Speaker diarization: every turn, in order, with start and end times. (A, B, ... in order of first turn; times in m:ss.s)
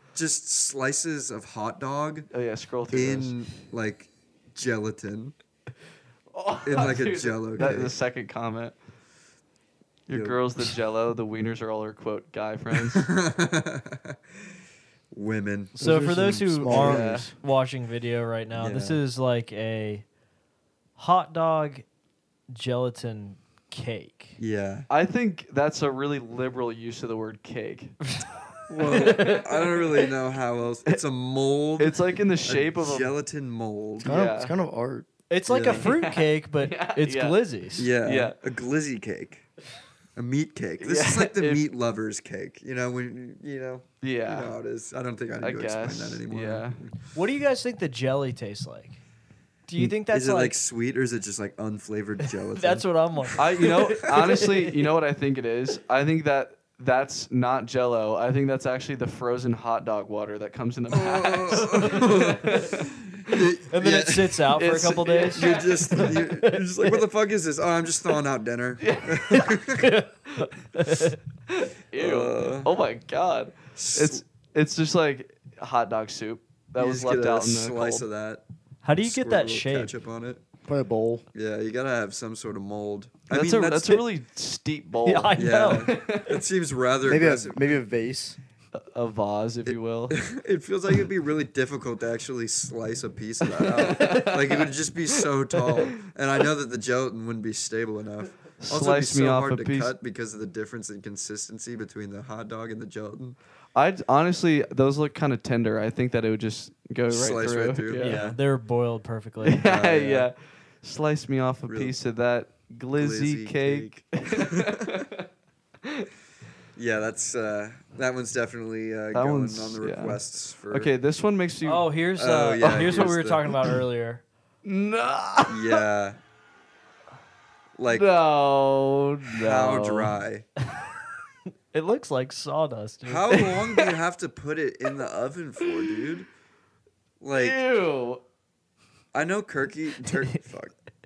0:00.2-0:02.3 A
0:02.3-0:03.4 B
0:02.9-0:05.4 A
0:06.3-0:08.8 B
0:06.6-0:08.0 A
0:10.1-0:13.1 B
0:10.1-0:10.4 A
0:12.7-0:14.2 A
0:15.1-0:16.3 A
0:15.8-0:17.3 C
0:15.8-0:20.1 D
0:16.7-0:17.3 B
0:18.6-0:19.0 A
0:21.0-0:21.8 D
0:22.5-0:24.4 D
0:24.4-0:24.9 A
0:24.9-0:28.0 B
0:28.7-0:34.2 A
0:28.8-0:29.7 B
0:28.9-0:29.4 D
0:31.8-0:33.1 B
0:34.0-0:35.1 C
0:34.0-0:34.6 B
0:35.3-0:37.9 D
0:35.5-0:35.9 A
0:35.7-0:37.4 B
0:37.8-0:39.5 A
0:38.0-0:38.4 B
0:40.2-0:46.9 A
0:40.8-0:41.6 B
0:44.0-0:44.6 B
0:45.4-0:46.8 B
0:47.2-0:49.0 D
0:49.7-0:50.6 D
0:49.8-0:54.4 A
0:52.5-0:54.6 D
0:53.4-1:02.8 B
1:00.9-1:10.0 A
1:01.6-1:02.7 D
1:03.7-1:06.6 D
1:04.5-1:06.2 B
1:08.8-1:09.5 B
1:09.4-1:11.2 D
1:11.5-1:18.0 B
1:12.0-1:12.7 A
1:13.8-1:14.2 A
1:16.8-1:18.4 A
1:18.8-1:19.9 D
1:19.0-1:20.4 A
1:20.7-1:21.2 C
1:21.3-1:24.0 A
1:23.3-1:26.4 B
1:25.0-1:25.9 D
1:25.4-1:27.7 A
1:27.1-1:28.4 C
1:28.7-1:30.2 B
1:29.6-1:43.4 A
1:33.5-1:35.9 B
1:38.6-1:39.9 B
1:43.8-1:48.4 B
1:47.1-1:48.4 A
1:48.0-1:49.7 D
1:49.4-1:55.3 B
1:49.6-1:50.3 A
1:51.7-1:52.0 A
1:53.0-1:55.1 A
1:56.8-2:00.9 A
1:59.1-2:02.0 B
2:01.6-2:04.2 D
2:02.2-2:03.7 A
2:02.6-2:03.1 B
2:04.6-2:05.8 B
2:05.5-2:06.2 A
2:07.8-2:08.1 A
2:07.9-2:10.2 B
2:09.4-2:10.5 A
2:11.7-2:13.4 D
2:13.0-2:16.3 A
2:13.7-2:13.9 B
2:17.2-2:17.6 A
2:17.3-2:18.2 B
2:19.1-2:20.7 A